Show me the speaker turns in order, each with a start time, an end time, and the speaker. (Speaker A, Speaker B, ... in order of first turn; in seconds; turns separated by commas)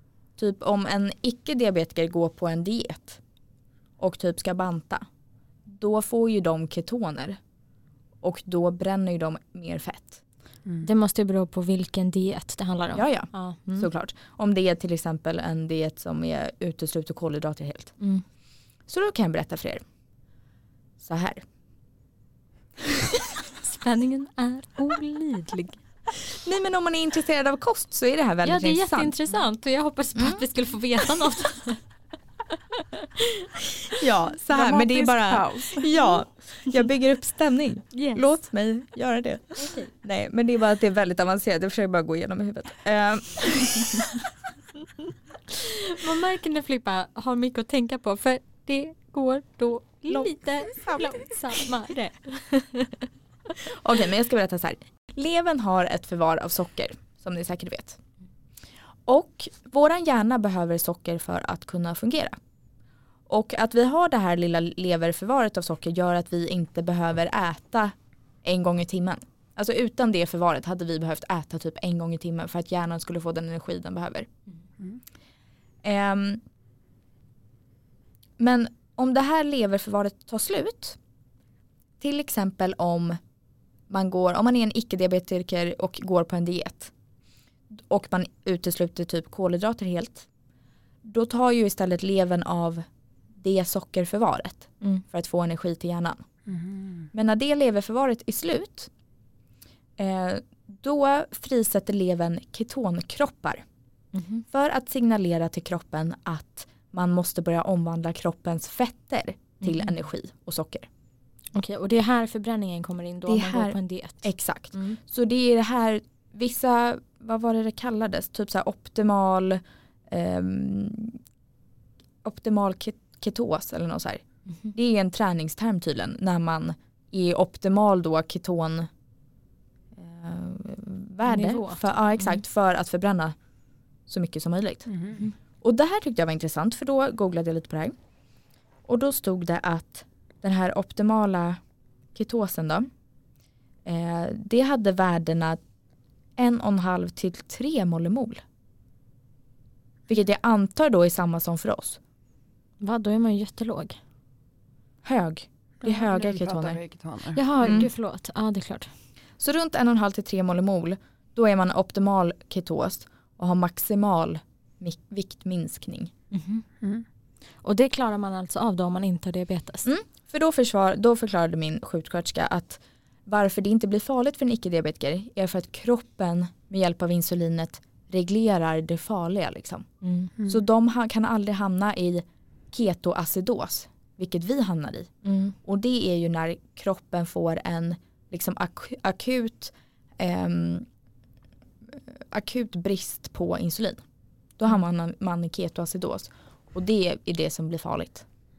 Speaker A: 0.4-3.2, Speaker A: 4.0-5.0, Speaker A: 5.7-7.4, Speaker A: 8.2-10.2, Speaker B: 10.8-13.9, Speaker A: 12.9-17.9, Speaker A: 18.9-19.8, Speaker A: 21.0-21.4, Speaker B: 23.6-25.8, Speaker A: 26.2-29.2, Speaker B: 28.4-31.8, Speaker A: 30.1-30.4, Speaker B: 32.8-33.5, Speaker A: 33.9-44.2, Speaker C: 34.5-35.9, Speaker B: 37.9-38.2, Speaker B: 39.6-39.9, Speaker B: 45.5-53.0, Speaker A: 50.1-51.3, Speaker A: 53.6-58.0, Speaker A: 59.1-62.4, Speaker A: 63.3-74.3, Speaker A: 75.8-76.4, Speaker A: 78.4-81.0, Speaker A: 82.0-83.2, Speaker A: 83.9-86.9, Speaker A: 87.7-90.3, Speaker A: 91.0-92.8, Speaker A: 93.4-96.2, Speaker C: 96.5-97.1, Speaker A: 97.1-98.9, Speaker A: 100.0-103.6, Speaker B: 104.1-104.4, Speaker A: 104.5-110.9, Speaker B: 109.6-109.9, Speaker B: 111.5-115.0, Speaker A: 113.3-121.2, Speaker A: 122.2-128.9, Speaker A: 129.9-133.3, Speaker B: 131.2-132.4, Speaker A: 134.1-134.9, Speaker C: 134.9-135.2, Speaker A: 135.6-137.9, Speaker A: 138.9-141.6, Speaker A: 142.1-142.9, Speaker A: 143.8-145.6, Speaker A: 146.4-148.4, Speaker A: 150.1-152.0, Speaker B: 152.8-154.0, Speaker A: 155.0-156.8, Speaker C: 155.8-157.4, Speaker B: 157.3-158.9, Speaker A: 157.6-157.9, Speaker A: 159.4-166.1, Speaker B: 166.3-166.6, Speaker B: 167.6-169.9, Speaker A: 169.8-179.9, Speaker B: 180.0-180.3, Speaker A: 180.5-185.1, Speaker B: 185.2-185.5, Speaker A: 185.6-190.9, Speaker A: 191.9-194.0, Speaker A: 194.6-198.2